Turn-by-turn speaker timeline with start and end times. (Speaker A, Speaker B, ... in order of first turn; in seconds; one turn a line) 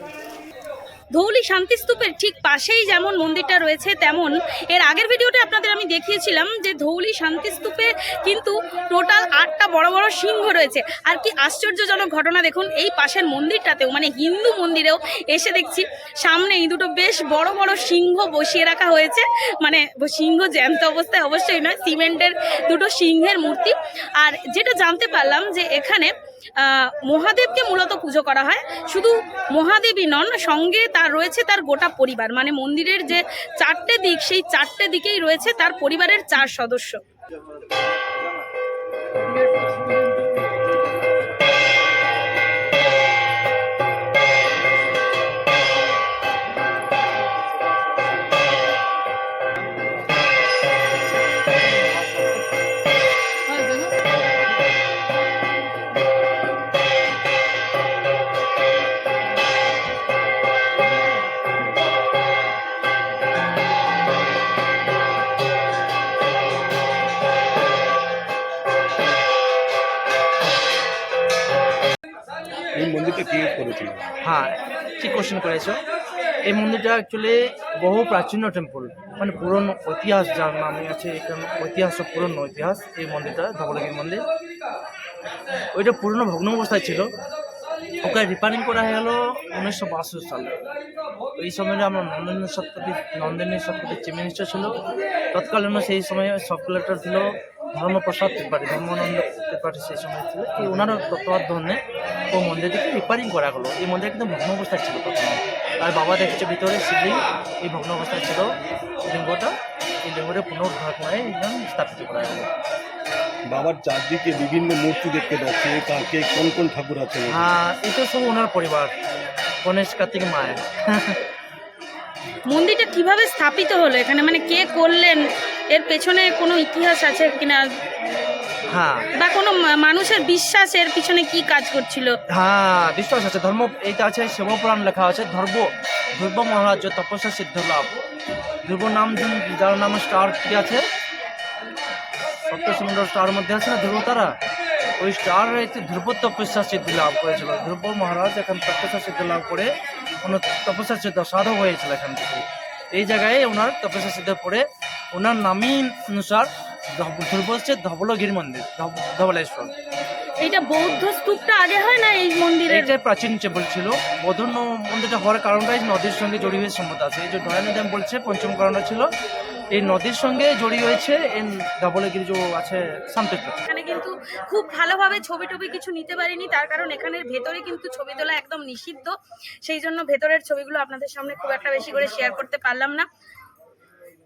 Speaker A: 1.1-37.0
Speaker B: 72.7-74.0
Speaker C: 74.2-75.8
Speaker C: 76.5-84.2
Speaker C: 85.7-87.1
Speaker C: 88.0-90.6
Speaker C: 91.4-94.8
Speaker C: 95.3-101.8
Speaker C: 102.3-112.5
Speaker B: 113.5-117.5
Speaker C: 117.3-118.9
Speaker C: 119.6-121.2
Speaker A: 122.5-127.7
Speaker C: 128.7-129.1
Speaker A: 129.2-132.2
Speaker C: 132.3-137.9
Speaker C: 138.6-140.9
Speaker C: 142.5-144.3
Speaker C: 145.0-159.7
Speaker A: 160.4-162.9
Speaker C: 162.7-169.1
Speaker C: 169.7-173.6
Speaker A: 173.7-183.1